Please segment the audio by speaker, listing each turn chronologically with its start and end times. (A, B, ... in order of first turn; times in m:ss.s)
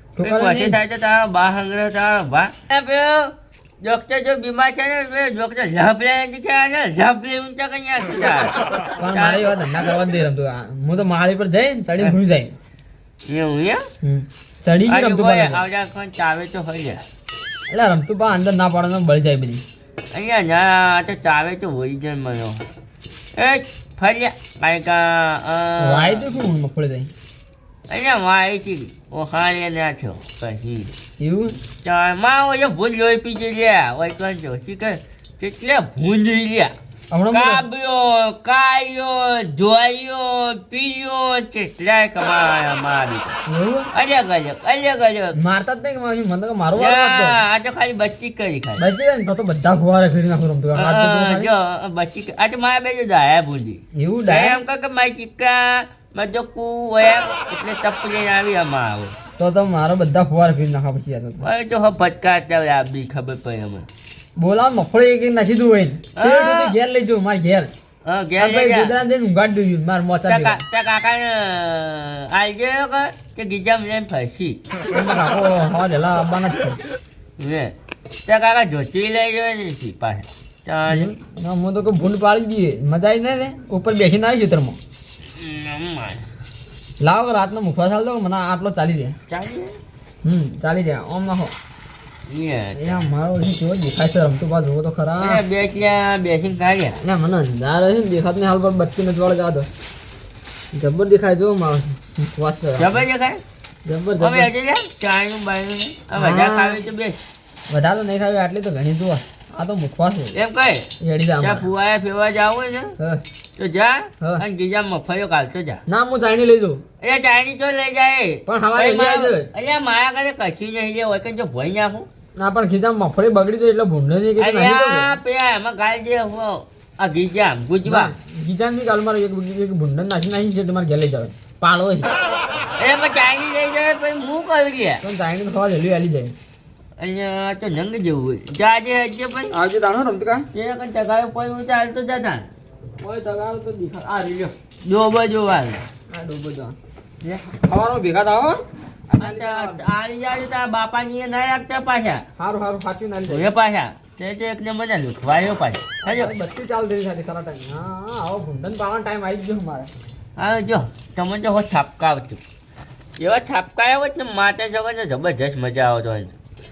0:00.2-0:00.8 A
0:00.2-0:08.5 B
0:09.0-0:12.6 A
0:09.1-0:09.6 B
0:13.3-0:13.8 B
0:14.0-0:15.6 A
0:14.9-0:17.0 B
0:17.7-0:19.6 A
0:20.1-0:22.6 B
0:23.4-0:26.3 B
0:25.8-0:27.1 A
0:27.9-0:30.9 B
0:31.2-0:31.6 A
0:31.8-0:36.8 B
0:37.1-0:37.7 A
0:37.3-0:43.4 B
0:43.5-0:43.9 A
0:43.9-0:45.4 B
0:45.3-0:47.4 A
0:46.8-0:48.8 B
0:48.8-0:51.5 A
0:50.7-0:59.2 B
0:53.9-0:54.6 A
0:59.4-1:01.5 A
1:01.4-1:03.9 B
1:04.4-1:07.7 A
1:06.2-1:06.8 B
1:08.0-1:08.9 B
1:08.4-1:10.6 A
1:10.3-1:14.6 B
1:14.9-1:16.8 A
1:17.4-1:17.7 B
1:18.3-1:21.1 B
1:20.9-1:24.8 A
1:25.4-1:26.2 B
1:27.0-1:29.2 A
1:29.3-1:29.8 B
1:30.2-1:31.5 A
1:32.3-1:33.1 B
1:32.8-1:35.4 A
1:35.2-1:37.0 B
1:37.0-1:39.7 A
1:40.7-1:43.0 A
1:42.8-1:43.4 B
1:43.9-1:44.5 A
1:44.2-1:47.2 B
1:46.2-1:46.8 A
1:47.7-1:50.4 A
1:50.3-1:50.9 B
1:51.0-1:51.7 A
1:51.4-1:53.0 B
1:53.6-1:55.8 B
1:55.9-1:56.8 A
1:57.0-2:02.1 B
1:58.5-1:59.5 A
2:02.4-2:05.2 A
2:04.4-2:08.1 B
2:07.8-2:12.1 A
2:12.8-2:15.0 B
2:15.0-2:16.4 A
2:17.0-2:19.5 B
2:19.5-2:20.5 A
2:20.5-2:22.5 B
2:23.0-2:24.5 A
2:24.8-2:25.9 B
2:26.1-2:26.8 A
2:27.5-2:29.9 A
2:29.2-2:32.2 B
2:32.4-2:33.5 A
2:33.3-2:36.3 B
2:36.0-2:39.9 A
2:40.4-2:42.4 B
2:43.2-2:46.3 B